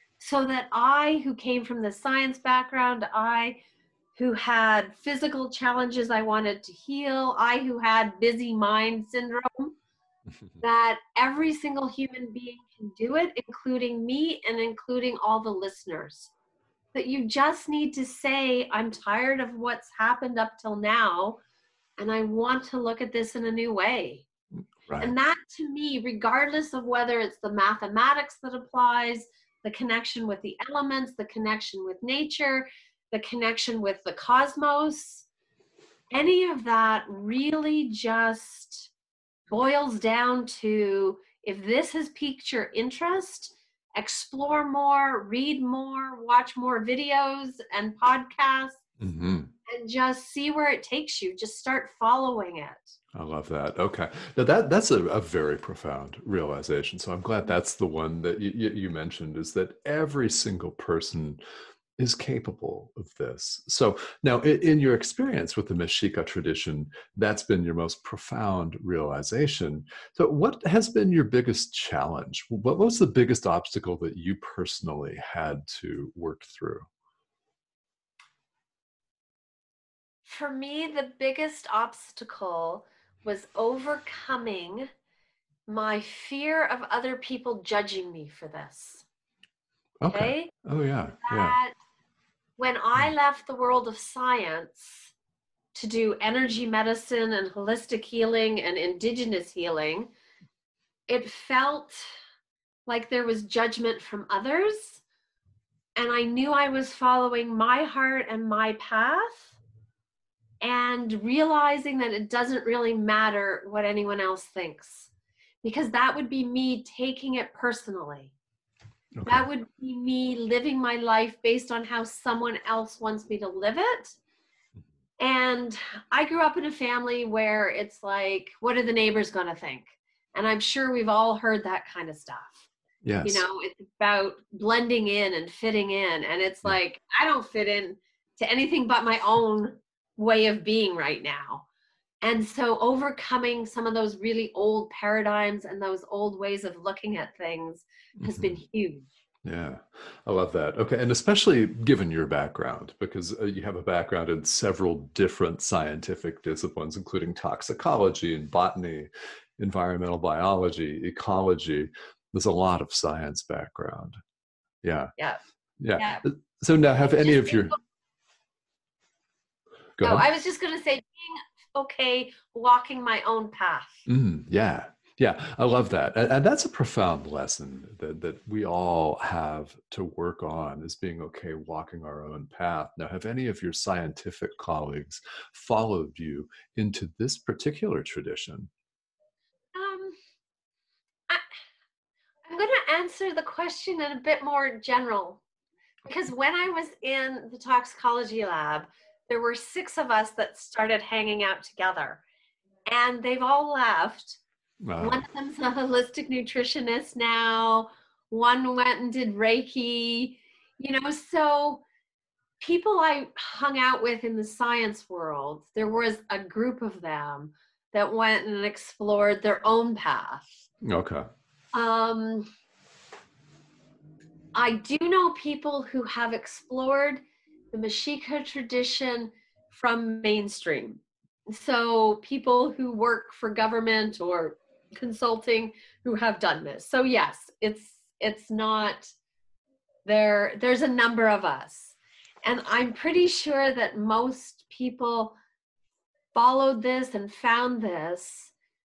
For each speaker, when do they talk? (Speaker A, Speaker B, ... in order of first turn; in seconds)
Speaker A: 0.2-3.6, 4.2-9.8, 10.6-16.3, 16.9-21.4, 22.0-24.3, 25.0-35.3, 36.1-38.9, 39.5-48.8, 49.7-53.0, 80.2-84.9, 85.7-89.0, 90.1-90.5, 91.2-91.8, 92.6-95.1, 95.7-100.1, 101.1-102.1, 102.9-105.0, 106.0-109.6, 110.6-115.1, 115.6-118.3, 119.3-124.2, 125.2-132.6, 133.2-141.7, 142.2-149.1, 166.0-166.3, 167.2-167.8, 170.0-174.1, 189.7-190.2, 192.5-195.4, 196.1-202.2, 202.9-204.4, 205.0-211.8, 212.6-220.6, 221.7-222.5, 224.6-227.2, 227.7-239.1, 240.1-245.4, 246.3-248.5
Speaker B: 24.9-25.1, 49.0-49.5, 53.1-61.4, 62.0-76.9, 90.0-91.6, 119.2-119.5, 133.0-133.4, 148.2-148.6, 149.4-164.2, 164.8-165.1, 165.8-167.8, 170.0-170.3, 174.1-188.7, 204.8-205.2, 220.8-221.3